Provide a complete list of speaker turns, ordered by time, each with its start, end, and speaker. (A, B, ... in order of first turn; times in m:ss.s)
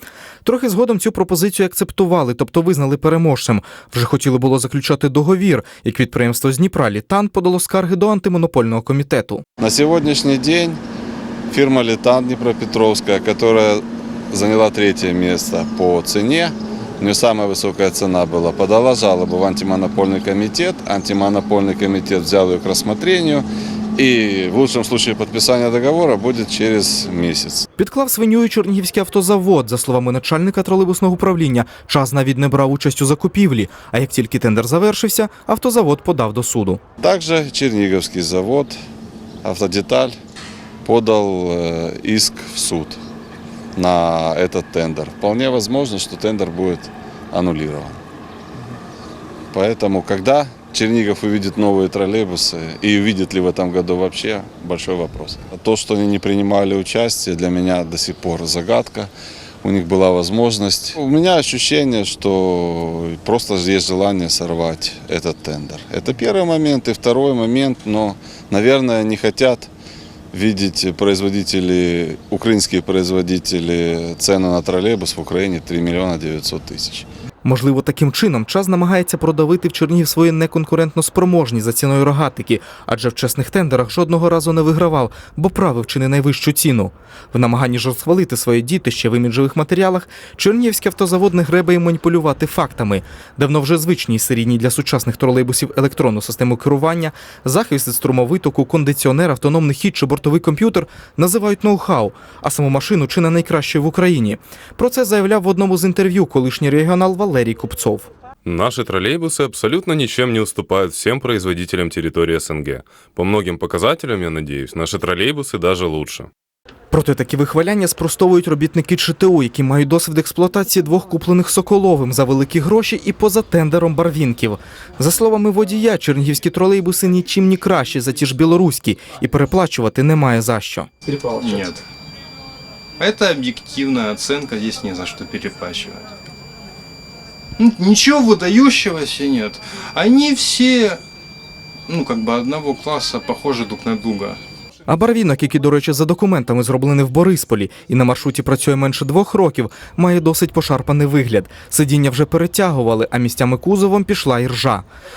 0:00.4-0:09.4 A
0:09.6-0:10.8 B
0:11.5-0:27.7 B
0:27.8-0:36.8 A
0:37.0-0:38.8 B
0:39.4-0:40.2 B
0:40.8-0:43.0 B
0:43.8-0:48.0 B
0:49.5-0:59.1 B
0:59.6-1:09.7 B
1:10.3-1:17.1 B
1:17.4-1:48.1 A
1:48.4-1:56.3 C
1:56.9-2:10.9 A
2:11.1-2:11.8 D
2:13.0-2:16.1 D
2:17.6-2:21.0 D
2:21.9-2:24.4 D
2:24.9-2:34.8 A